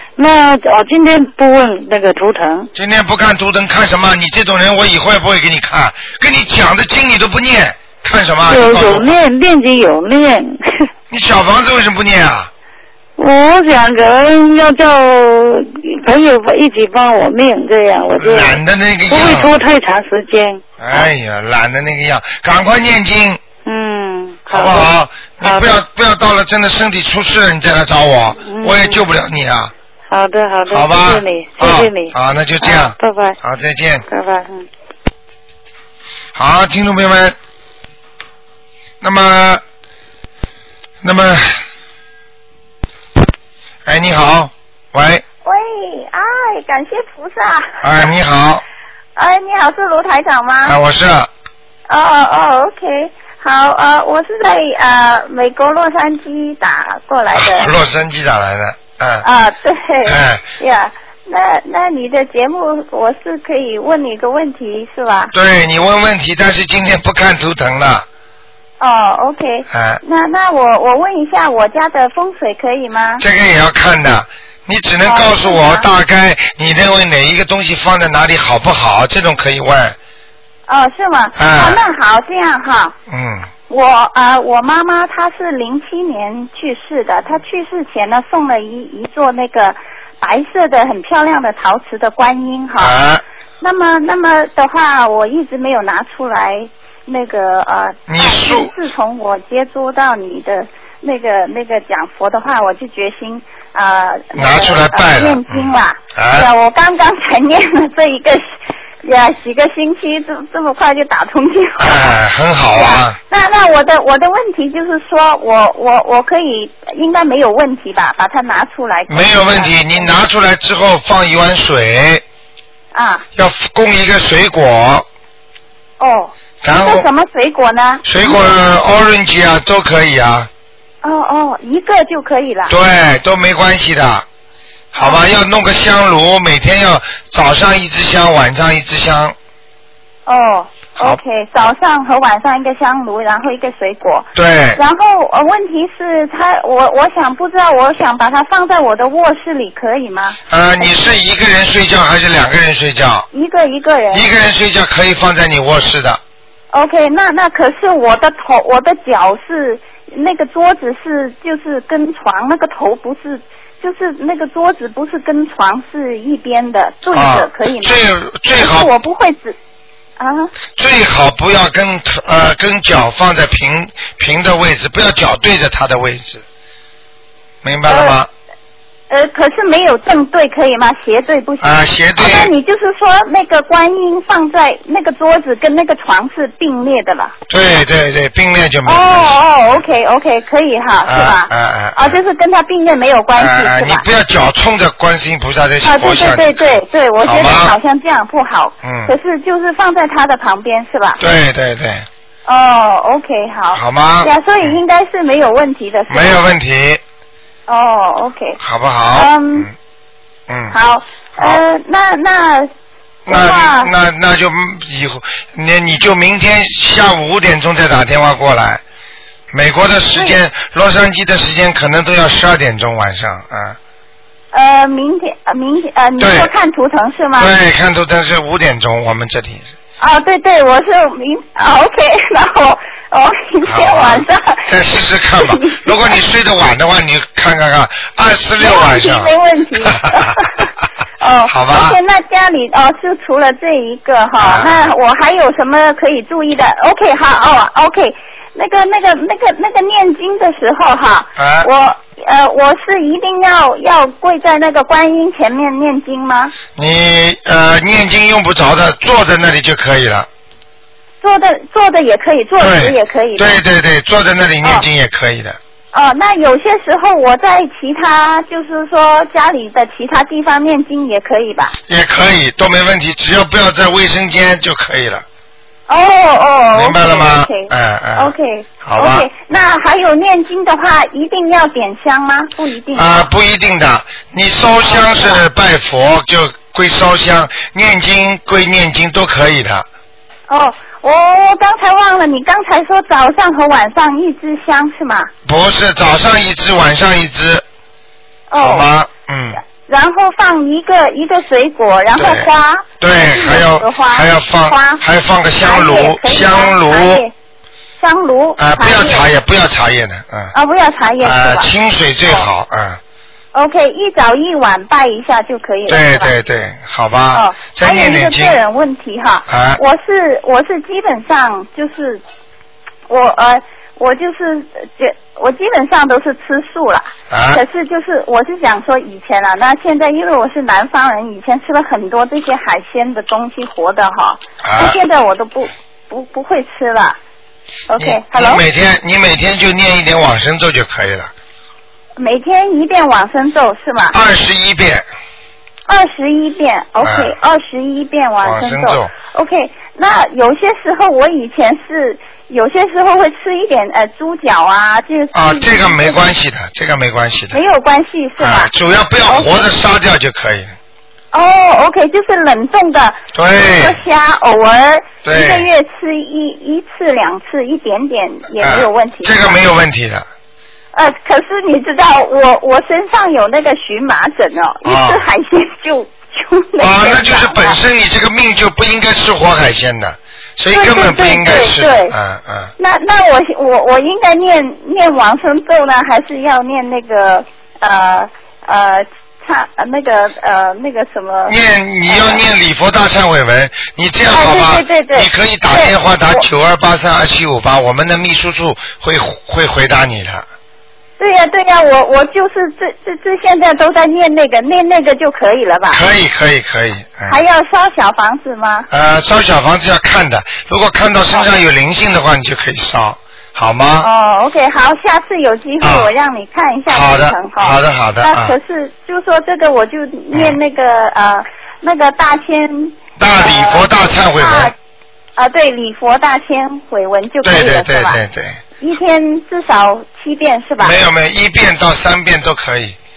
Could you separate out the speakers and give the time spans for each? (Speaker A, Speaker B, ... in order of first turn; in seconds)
Speaker A: 0.2-2.7, 8.5-10.9, 13.2-18.6, 19.1-21.1, 23.6-24.9, 25.4-25.8, 28.4-29.0, 30.1-33.4, 34.1-34.7
Speaker B: 2.7-9.1, 11.1-12.5, 18.2-19.5, 20.8-23.4, 24.5-29.7, 30.7-34.0, 36.3-37.4, 39.0-39.6, 41.0-41.6, 43.9-45.2, 47.8-48.6, 50.6-51.3, 57.3-59.2, 60.0-60.4, 65.3-68.0, 69.7-70.0, 73.2-80.0, 81.3-81.8, 83.1-83.5, 92.8-93.2, 98.1-98.7, 104.3-106.5, 111.8-113.2, 119.1-122.2, 123.3-125.0, 126.6-127.1, 128.0-130.5, 132.7-134.2, 134.9-139.3, 144.3-144.8, 150.5-153.3, 154.1-156.2, 167.1-168.9, 170.8-176.4, 177.6-178.3, 181.6-182.5, 187.5-189.8, 191.0-192.2, 193.3-196.7, 197.2-197.8, 198.8-199.1, 201.2-202.1, 203.7-204.8, 206.1-207.0, 208.6-209.7, 210.5-210.8, 211.3-211.6, 213.3-218.8, 219.5-223.8, 226.2-226.5, 227.4-229.7, 233.7-239.3, 239.8-240.4, 241.5-242.0, 244.4-244.9, 251.4-251.7, 256.8-260.3, 262.6-265.6, 271.9-275.2, 276.7-279.6, 282.9-289.9, 295.4-297.6, 298.6-299.6, 302.1-307.2, 308.6-310.5, 311.2-313.0, 315.9-318.6, 319.5-319.8, 327.3-327.6, 334.6-335.0, 338.0-341.3, 344.1-345.0, 347.0-347.3, 348.4-349.1, 355.3-357.6, 358.4-360.7, 363.3-364.0, 365.2-365.7, 368.6-370.2, 374.8-375.2, 376.8-382.7, 391.5-400.4, 405.9-407.4, 408.9-414.1, 415.8-416.1, 416.9-418.6, 423.2-424.7, 427.4-428.6, 430.8-433.0
Speaker C: 45.4-47.8, 49.1-50.8, 51.9-57.7, 59.2-65.3, 68.8-73.2, 75.0-75.9, 80.7-83.0, 83.7-93.0, 93.6-120.1, 122.9-123.2, 126.0-128.6, 131.0-132.7, 134.9-135.3, 140.2-151.1, 153.3-154.3, 156.7-168.0, 168.5-169.6, 170.2-170.5, 177.9-178.2, 179.1-187.3, 188.8-194.1, 195.8-201.2, 202.4-206.4, 207.7-208.6, 209.1-209.7, 210.7-212.7, 213.3-213.9, 220.1-220.4, 224.5-227.5, 230.0-236.1, 238.6-256.5, 261.2-263.6, 265.9-271.8, 275.9-283.3, 284.8-285.4, 290.5-295.3, 298.5-298.9, 299.7-305.0, 305.6-307.3, 308.0-309.3, 310.5-311.7, 313.5-316.3, 317.3-322.2, 323.1-337.2, 337.9-338.6, 342.2-344.2, 345.9-356.3, 357.5-358.7, 359.3-359.7, 361.3-369.6, 370.9-377.8, 380.7-382.1, 382.8-392.4, 394.3-396.4, 401.2-406.1, 407.2-408.9, 411.3-411.6, 414.0-424.7, 425.4-428.2, 428.8-431.0